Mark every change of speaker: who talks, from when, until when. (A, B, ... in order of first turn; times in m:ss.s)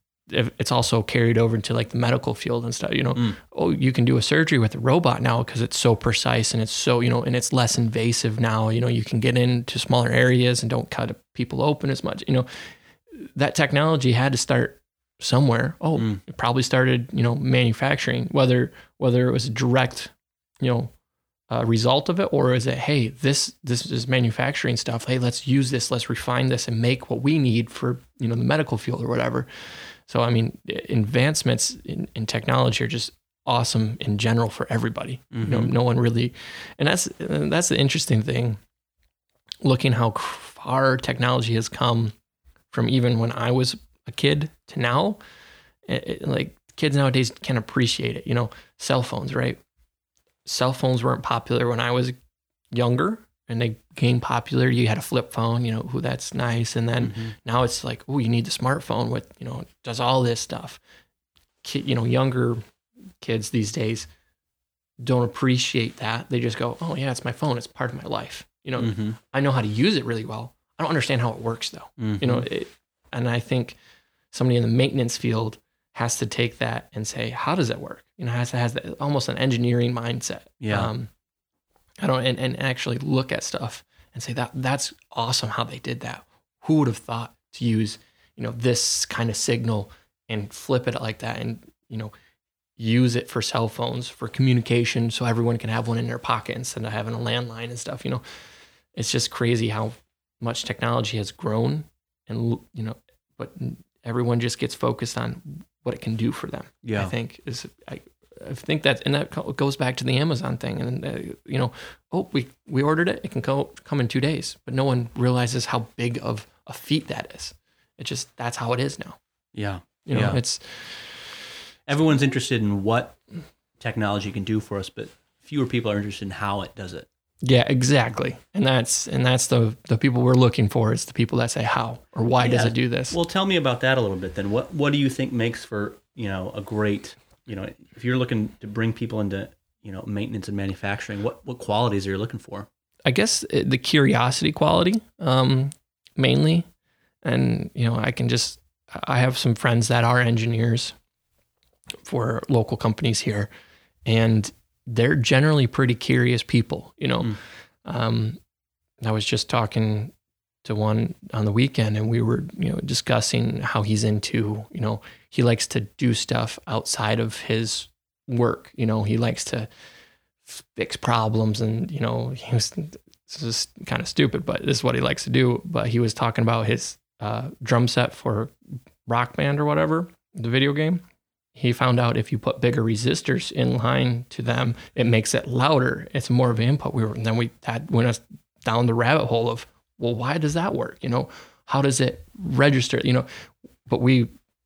0:00.3-0:20.9 A
0:16.0-0:16.2 B
0:21.5-0:38.6 A
0:35.3-0:35.7 B
0:39.6-0:42.1 A
0:42.7-0:45.2 A
0:45.8-0:49.6 A
0:50.4-0:52.1 A
0:52.7-1:00.8 A
0:57.0-0:57.4 B
1:01.6-1:02.6 A
1:03.2-1:04.1 A
1:05.0-1:13.8 A
1:08.8-1:09.2 B
1:12.0-1:12.5 B
1:14.3-1:21.1 A
1:20.6-1:20.9 B
1:22.0-1:32.1 A
1:32.8-1:38.2 A
1:38.9-1:59.2 A
1:46.8-1:47.1 B
1:59.5-2:00.4 B
2:00.0-2:01.2 A
2:01.8-2:03.2 B
2:03.8-2:07.1 B
2:07.4-2:13.2 A
2:12.4-2:22.7 B
2:23.0-2:26.7 A
2:27.2-2:31.0 A
2:32.0-2:33.5 A
2:34.0-2:38.4 A
2:39.0-2:40.1 A
2:40.6-2:49.7 A
2:50.4-2:58.5 A
2:59.0-3:01.0 A
3:01.5-3:13.3 A
3:13.9-3:14.3 A